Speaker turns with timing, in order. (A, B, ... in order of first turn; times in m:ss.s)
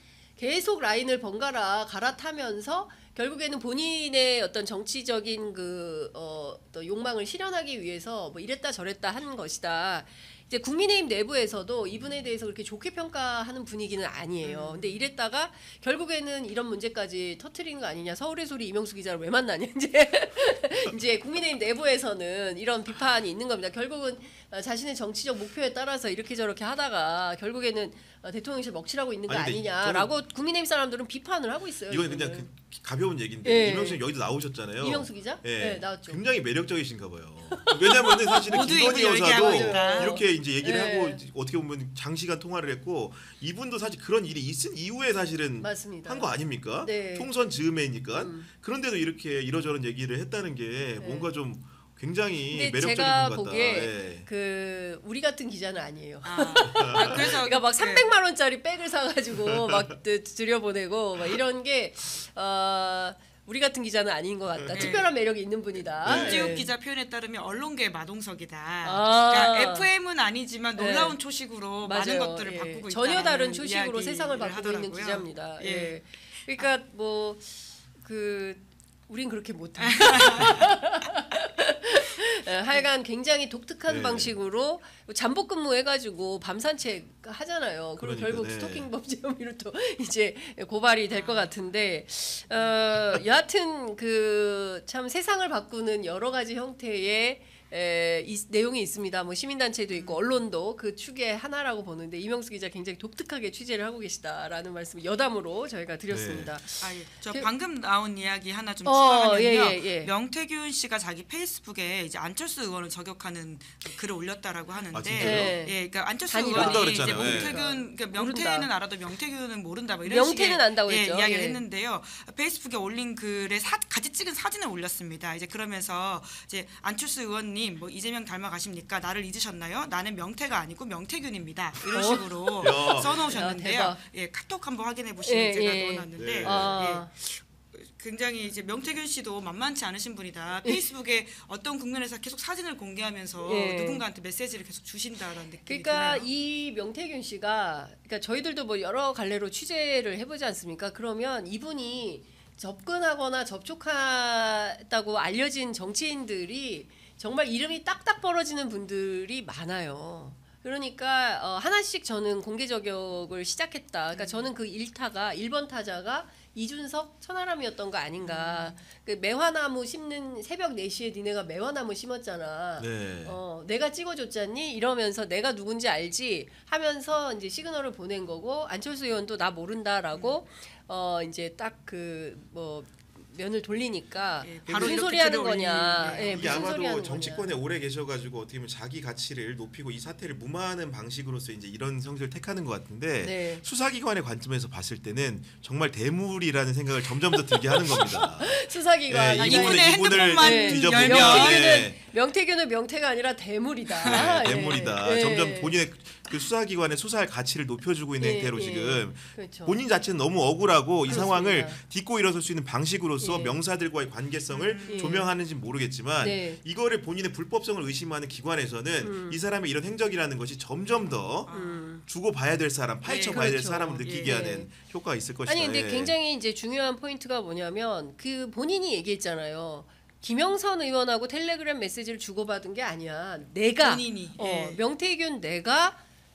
0:00.4-0:32.5 A
0:14.4-0:15.0 B
0:29.3-0:30.1 C
0:31.9-0:54.3 C
0:33.4-0:34.0 A
0:34.8-0:36.2 A
0:37.4-0:41.2 A
0:38.5-0:40.2 B
0:45.6-0:47.3 A
0:48.1-0:48.5 A
0:51.0-0:51.3 A
0:52.5-1:06.7 A
0:56.2-0:58.1 B
1:04.6-1:05.0 C
1:04.7-1:05.1 B
1:06.0-1:06.6 C
1:06.0-1:16.0 B
1:08.8-1:09.9 A
1:10.8-1:11.2 A
1:11.8-1:47.5 A
1:19.8-1:20.8 B
1:23.9-1:24.4 C
1:28.0-1:28.9 C
1:31.1-1:31.5 B
1:40.0-1:40.2 B
1:46.1-1:46.5 C
1:46.8-2:26.3 B
1:48.8-1:50.1 A
1:54.9-1:55.6 C
1:55.2-1:58.7 A
1:56.5-1:57.6 C
2:00.0-2:01.6 A
2:11.9-2:14.0 A
2:12.6-2:13.1 C
2:15.2-2:17.1 A
2:16.2-2:16.9 C
2:23.4-2:24.0 A
2:25.7-3:07.5 A
2:44.1-2:44.5 B
2:48.2-2:48.8 B
2:52.8-2:53.4 C
3:04.4-3:06.7 B
3:04.7-3:05.0 C
3:06.3-3:22.0 C
3:13.2-3:13.6 A
3:17.3-3:25.8 A
3:19.4-3:21.7 B
3:24.0-3:24.2 B
3:24.1-3:41.5 C
3:28.2-3:29.8 A
3:31.1-3:31.8 A
3:33.2-3:33.6 A
3:34.5-3:35.2 B
3:34.9-3:35.3 A
3:36.2-3:36.6 A
3:39.0-3:39.4 A
3:41.4-3:42.0 B
3:41.5-3:42.0 A
3:42.0-3:46.1 C
3:43.0-3:44.4 B
3:43.3-3:44.7 A
3:45.5-3:56.0 A
3:53.8-3:54.8 B